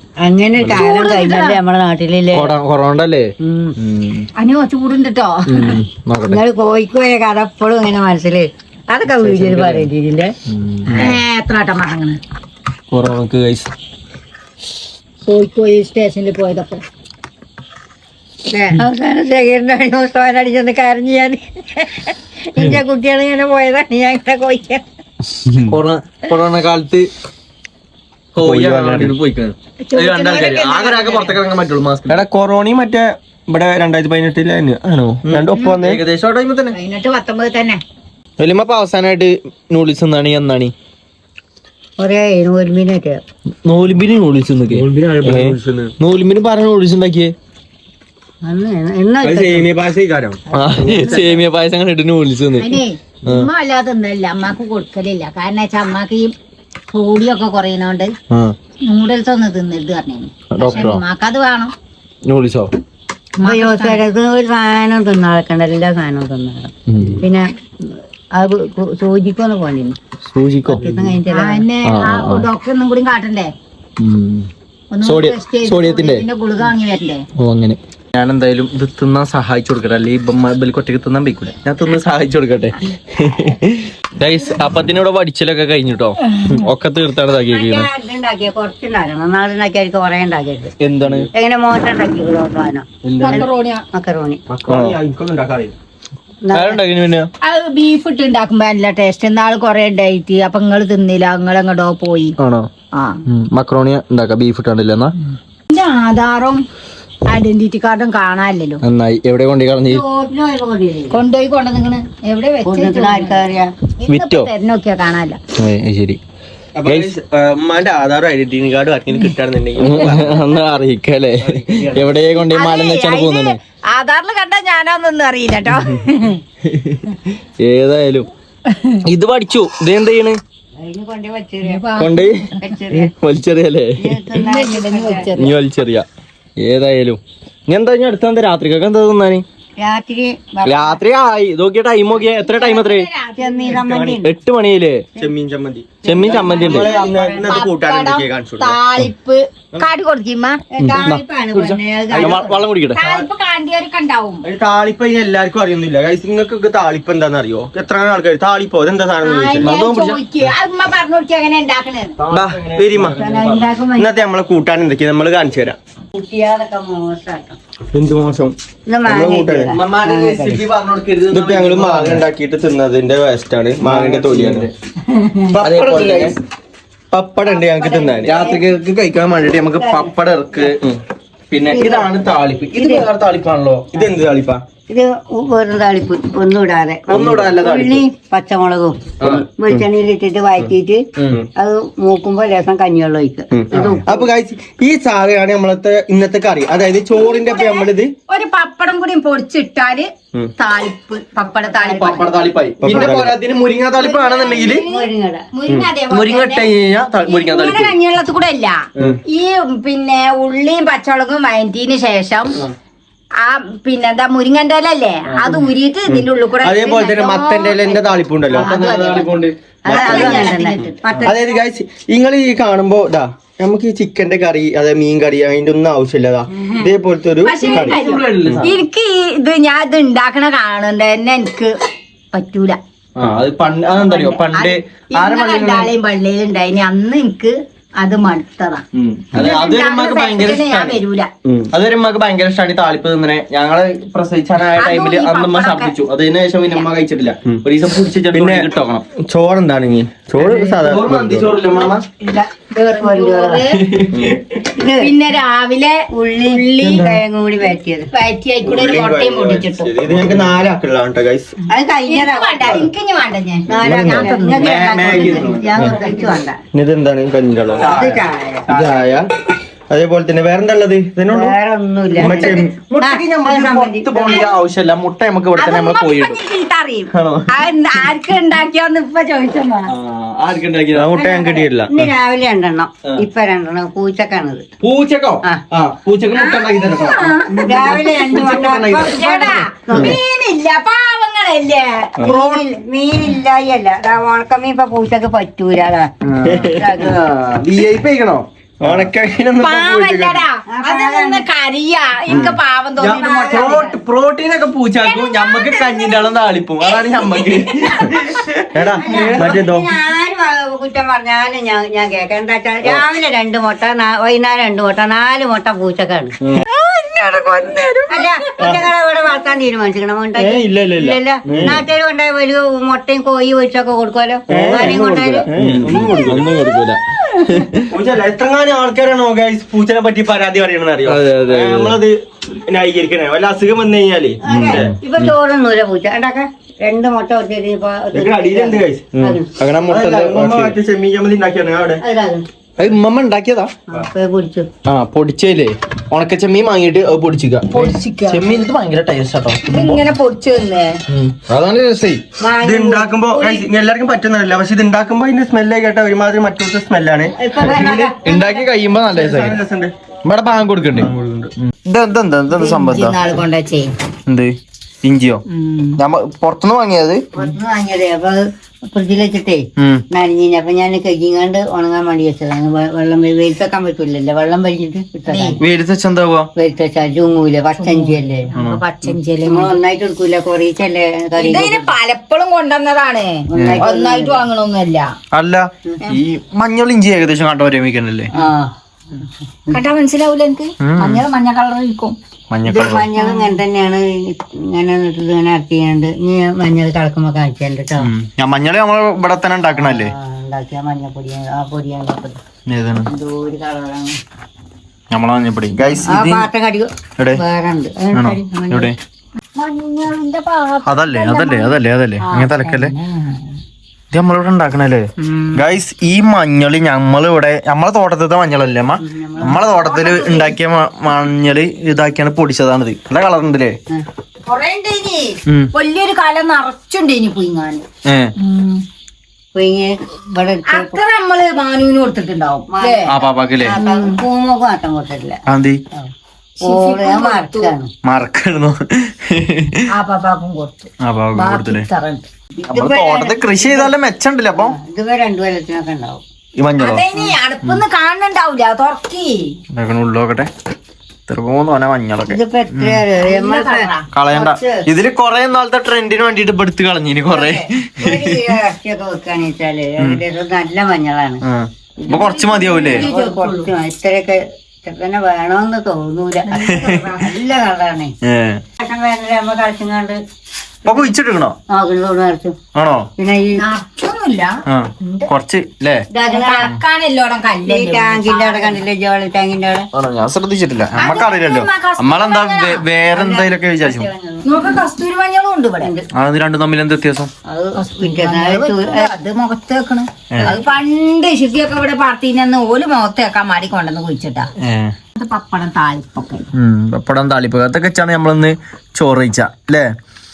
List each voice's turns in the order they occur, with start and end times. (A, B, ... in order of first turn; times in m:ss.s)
0:00.2-0:02.5 A
0:00.7-0:01.6 B
0:02.3-0:04.3 C
0:03.4-0:03.7 A
0:04.4-0:05.7 B
0:05.5-0:06.4 C
0:06.3-0:10.3 A
0:09.2-0:09.9 C
0:10.5-0:11.1 C
0:11.0-0:12.2 B
0:12.9-0:13.7 D
0:15.2-0:16.8 B
0:18.5-0:24.8 A
0:25.7-0:27.1 C
0:28.3-0:32.2 C
0:28.4-0:29.1 D
0:29.8-0:31.4 B
0:32.1-0:36.0 D
0:35.2-0:36.7 C
0:36.7-0:37.8 B
0:38.4-0:40.7 C
0:42.0-0:43.2 A
0:43.6-0:47.3 C
0:44.7-0:45.9 D
0:48.4-0:49.7 A
0:49.2-0:51.4 D
0:50.5-0:51.2 A
0:50.5-0:52.7 C
0:52.6-0:56.3 B
0:56.9-0:58.1 B
0:58.8-1:01.7 B
1:00.5-1:01.0 C
1:02.3-1:02.7 C
1:03.4-1:04.0 B
1:03.4-1:07.5 A
1:06.9-1:07.2 C
1:08.3-1:10.0 A
1:10.2-1:10.8 C
1:10.7-1:11.6 A
1:11.3-1:13.5 B
1:11.8-1:12.5 C
1:14.0-1:14.5 C
1:14.9-1:17.2 B
1:15.0-1:16.2 C
1:17.4-1:27.9 C
1:27.5-1:30.7 A
1:30.8-1:31.3 C
1:31.3-1:34.4 A
1:33.0-1:33.4 D
1:33.1-1:33.4 C
1:33.2-1:33.8 B
1:34.5-1:35.7 D
1:34.7-1:35.0 C
1:36.4-1:36.8 A
1:36.5-1:37.3 C
1:37.4-1:42.3 B
1:42.4-1:42.7 C
1:42.9-1:43.2 B
1:43.3-1:45.1 C
1:45.7-1:46.6 B
1:47.3-1:48.8 B
1:48.8-1:50.0 C
1:49.9-1:51.2 A
1:51.1-1:53.4 B
1:52.6-1:53.7 A
1:54.0-1:55.4 B
1:54.0-1:54.5 C
1:55.6-1:56.2 C
1:56.8-2:00.4 D
1:56.8-1:57.1 C
1:59.8-2:03.6 C
2:01.4-2:02.1 D
2:02.5-2:06.4 B
2:06.7-2:07.0 C
2:07.6-2:08.3 C
2:08.7-2:09.0 B
2:09.0-2:10.4 C
2:10.8-2:11.8 A
2:11.6-2:12.8 B
2:12.0-2:12.4 C
2:12.6-2:13.1 A
2:12.9-2:14.1 C
2:14.0-2:15.3 A
2:14.3-2:15.5 B
2:15.4-2:16.0 C
2:16.6-2:19.4 C
2:19.8-2:21.0 A
2:20.6-2:23.1 C
2:22.4-2:23.8 B
2:23.4-2:24.3 A
2:23.7-2:24.2 D
2:24.2-2:25.0 C
2:25.2-2:28.8 D
2:26.0-2:26.9 C
2:26.0-2:27.6 A
2:27.4-2:30.6 B
2:30.7-2:32.6 A
2:30.8-2:33.0 C
2:32.1-2:32.4 D
2:32.9-2:33.3 D
2:32.9-2:34.4 B
2:34.4-2:40.2 D
2:39.2-2:42.2 B
2:42.3-2:45.8 D
2:42.3-2:43.3 C
2:43.1-2:44.2 A
2:46.1-2:47.6 A
2:47.9-2:49.8 D
2:48.9-2:50.6 A
2:49.7-2:52.2 C
2:51.3-2:54.7 D
2:53.8-2:54.7 C
2:55.5-2:56.4 D
2:55.6-2:56.4 C
2:57.1-2:58.4 D
2:57.4-2:58.6 A
2:58.2-3:00.8 C
2:59.7-3:00.1 A
3:00.6-3:01.0 D
3:01.5-3:03.9 C
3:01.7-3:02.1 A
3:02.8-3:03.1 A
3:03.9-3:04.6 D
3:04.9-3:11.0 A
3:07.1-3:08.0 C
3:07.2-3:07.5 D
3:09.2-3:09.8 C
3:11.6-3:14.2 A
3:13.5-3:18.1 D
3:17.1-3:22.3 B
3:21.4-3:23.2 A
3:21.8-3:24.8 C
3:22.8-3:23.4 D
3:24.0-3:25.5 A
3:24.0-3:32.6 B
3:26.1-3:28.0 C
3:33.4-3:37.8 B
3:35.3-3:35.6 C
3:36.1-3:39.2 D
3:38.5-3:40.6 C
3:38.5-3:38.8 A
3:38.5-3:39.4 B
3:39.8-3:41.5 A
3:39.9-3:40.7 D
3:39.9-3:40.8 B
3:41.2-3:48.7 D
3:46.6-3:46.9 B
3:47.4-3:51.7 B
3:47.7-3:48.8 C
3:52.3-3:52.8 B
3:53.2-3:55.9 C
3:53.9-3:58.8 B
3:58.9-4:01.0 C
3:59.4-4:01.3 B
4:01.4-4:01.7 D
4:01.7-4:09.0 C
4:04.8-4:05.9 B
4:08.3-4:11.6 D
4:10.4-4:12.0 C
4:11.8-4:13.6 A
4:12.8-4:13.8 B
4:13.8-4:14.3 C
4:14.6-4:15.1 A
4:15.0-4:17.1 B
4:16.1-4:18.1 A
4:18.1-4:19.9 B
4:18.6-4:21.6 D
4:21.7-4:22.9 A
4:22.0-4:24.7 B
4:22.6-4:22.9 D
4:23.7-4:26.6 A
4:23.7-4:26.0 D
4:24.0-4:26.0 C
4:26.7-4:28.1 D
4:27.8-4:29.1 C
4:27.8-4:28.7 A
4:28.7-4:29.2 D
4:29.9-4:31.6 D
4:31.3-4:34.4 A
4:32.2-4:36.4 C
4:32.2-4:32.8 D
4:35.5-4:39.9 B
4:37.1-4:37.6 C
4:39.9-4:41.2 C
4:40.9-4:42.1 D
4:41.2-4:44.6 A
4:44.8-4:50.2 C
4:46.3-4:52.2 B
4:47.5-4:50.2 A
4:48.3-4:48.8 D
4:52.2-4:52.6 C
4:52.2-4:57.2 A
4:56.2-4:59.1 C
4:58.8-5:00.4 D
4:59.6-5:04.0 B
5:00.7-5:01.4 A
5:02.3-5:02.6 C
5:02.3-5:03.2 D
5:03.0-5:03.9 A
5:03.3-5:09.1 C
5:05.0-5:08.1 B
5:08.7-5:09.9 D
5:09.0-5:16.3 A
5:16.7-5:18.3 B
5:18.1-5:26.4 A
5:20.4-5:21.7 D
5:21.5-5:21.8 C
5:24.5-5:26.6 D
5:24.5-5:27.8 C
5:27.9-5:35.0 D
5:31.0-5:32.0 C
5:34.4-5:39.5 A
5:34.5-5:35.3 C
5:38.1-5:39.2 D
5:39.2-5:40.8 C
5:39.8-5:42.0 D
5:42.0-5:42.5 A
5:42.8-5:43.7 C
5:43.9-5:44.7 A
5:44.9-5:50.0 C
5:47.7-5:48.5 B
5:49.6-5:51.0 B
5:51.1-5:52.2 C
5:52.4-5:53.6 A
5:52.6-5:58.2 D
5:57.4-5:58.5 A
5:58.2-5:59.6 C
5:58.9-5:59.9 D
6:00.2-6:01.1 C
6:00.9-6:01.5 D
6:01.8-6:03.2 C
6:02.5-6:03.9 B
6:04.3-6:05.4 C
6:05.5-6:06.0 B
6:06.0-6:07.2 C
6:07.3-6:15.6 A
6:09.8-6:10.0 C
6:15.3-6:15.6 B
6:15.6-6:16.5 C
6:16.6-6:18.5 A
6:17.8-6:19.7 B
6:18.6-6:18.8 C
6:19.4-6:21.9 A
6:21.4-6:25.1 B
6:23.5-6:24.5 A
6:23.5-6:23.8 C
6:25.3-6:28.3 C
6:28.3-6:28.7 A
6:29.7-6:32.2 B
6:30.8-6:31.2 C
6:32.5-6:33.1 C
6:32.6-6:38.1 A
6:33.2-6:33.6 B
6:38.0-6:40.1 C
6:39.7-6:42.4 A
6:42.7-6:43.1 C
6:43.0-6:44.2 A
6:45.1-6:46.5 C
6:46.0-6:48.9 A
6:48.1-6:49.0 C
6:49.5-6:53.4 B
6:50.8-6:52.9 C
6:54.1-7:03.8 C
6:55.2-6:55.6 B
6:59.0-6:59.8 A
6:59.7-7:00.6 B
7:04.4-7:07.8 B
7:08.1-7:08.3 C
7:08.4-7:08.8 B
7:09.5-7:11.0 A
7:10.6-7:13.1 B
7:12.7-7:15.4 A
7:13.1-7:13.8 C
7:13.7-7:14.2 B
7:15.5-7:15.8 C
7:16.6-7:17.7 B
7:16.6-7:17.9 A
7:18.0-7:19.8 C
7:19.9-7:22.2 B
7:21.0-7:21.8 C
7:22.6-7:23.9 A
7:22.7-7:24.8 C
7:24.6-7:26.2 A
7:26.6-7:27.0 C
7:26.8-7:29.5 B
7:29.7-7:30.5 C
7:31.3-7:33.0 C
7:32.3-7:34.8 A
7:33.2-7:34.0 B
7:34.1-7:38.5 C
7:37.3-7:41.4 A
7:41.4-7:43.1 C
7:42.0-7:48.1 A
7:42.1-7:43.7 B
7:46.5-7:47.3 B
7:46.6-7:47.2 C
7:48.2-7:48.6 C
7:48.8-7:50.2 A
7:50.8-7:51.6 C
7:51.7-7:52.5 A
7:52.7-7:53.1 C
7:53.2-7:53.6 A
7:53.6-7:55.3 B
7:54.7-7:56.0 C
7:56.1-7:56.8 A
7:56.2-7:58.8 B
7:57.6-7:59.9 A
7:59.9-8:04.1 C
8:01.0-8:02.9 B
8:03.1-8:04.8 A
8:04.4-8:05.9 B
8:06.2-8:07.3 C
8:07.5-8:09.1 A
8:07.7-8:14.5 B
8:10.3-8:10.6 C
8:14.6-8:14.9 C
8:15.1-8:16.5 B
8:16.5-8:19.8 C